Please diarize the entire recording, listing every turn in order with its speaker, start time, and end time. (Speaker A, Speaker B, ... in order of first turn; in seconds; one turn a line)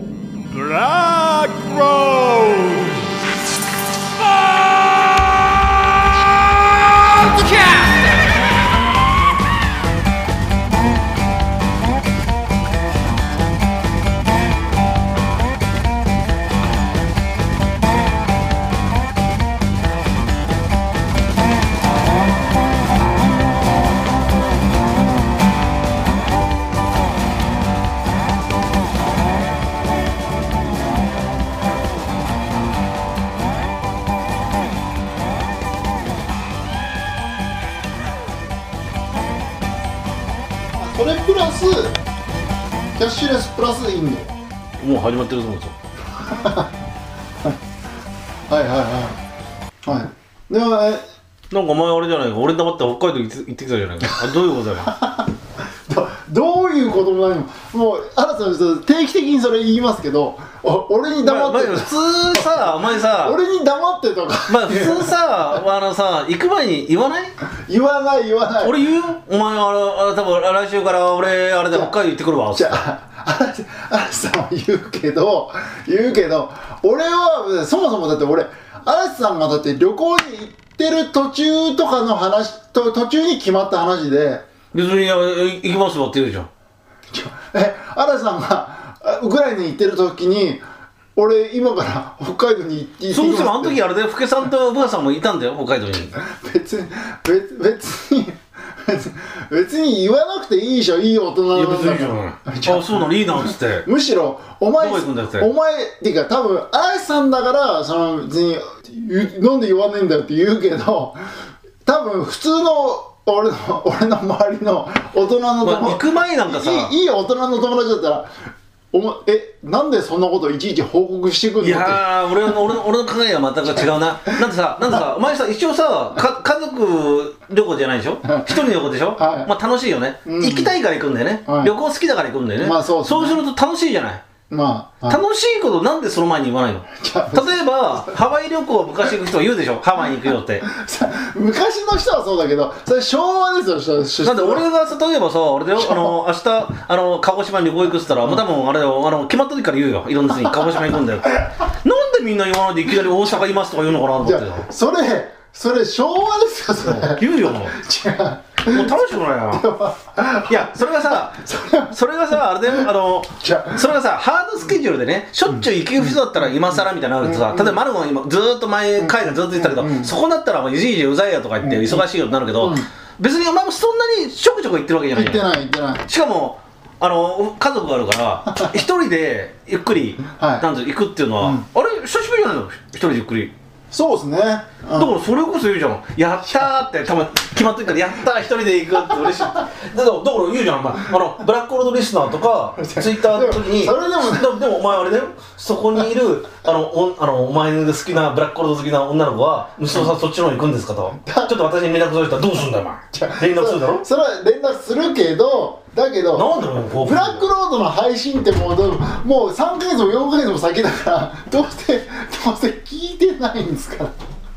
Speaker A: 0.5-3.2
Speaker A: 4.2-5.6
Speaker A: 7.0-8.2
Speaker B: 40.8-42.0
Speaker B: 43.0-44.4
Speaker C: 44.8-45.8
Speaker B: 46.2-46.7
Speaker B: 48.5-49.2
Speaker B: 49.9-51.0
Speaker C: 51.5-54.9
Speaker B: 54.8-55.3
Speaker B: 55.9-65.2
Speaker C: 61.2-63.4
Speaker C: 64.5-67.3
Speaker B: 67.7-68.8
Speaker C: 68.6-72.8
Speaker B: 72.5-84.4
Speaker C: 84.7-86.5
Speaker B: 87.1-90.6
Speaker B: 91.2-93.8
Speaker C: 93.1-96.2
Speaker B: 96.2-111.3
Speaker C: 101.5-103.9
Speaker C: 104.8-105.5
Speaker B: 111.8-118.3
Speaker C: 115.6-116.9
Speaker B: 118.9-122.6
Speaker C: 121.6-134.2
Speaker B: 128.2-128.6
Speaker B: 129.2-129.5
Speaker B: 130.2-130.7
Speaker B: 131.5-131.7
Speaker B: 132.6-133.4
Speaker B: 134.5-135.2
Speaker C: 135.1-140.7
Speaker B: 136.9-138.2
Speaker B: 140.6-144.7
Speaker C: 144.2-154.7
Speaker B: 145.8-146.1
Speaker B: 154.2-158.9
Speaker C: 156.8-157.7
Speaker C: 158.7-159.7
Speaker B: 159.5-161.9
Speaker C: 160.5-175.4
Speaker B: 163.4-163.8
Speaker B: 167.2-167.8
Speaker B: 169.0-170.1
Speaker B: 171.6-172.1
Speaker B: 172.6-172.9
Speaker B: 175.1-176.1
Speaker C: 176.1-183.5
Speaker B: 180.3-180.7
Speaker B: 181.4-181.7
Speaker B: 183.9-185.2
Speaker C: 185.0-204.1
Speaker B: 192.8-194.6
Speaker B: 201.2-201.5
Speaker B: 203.1-214.1
Speaker C: 206.3-207.4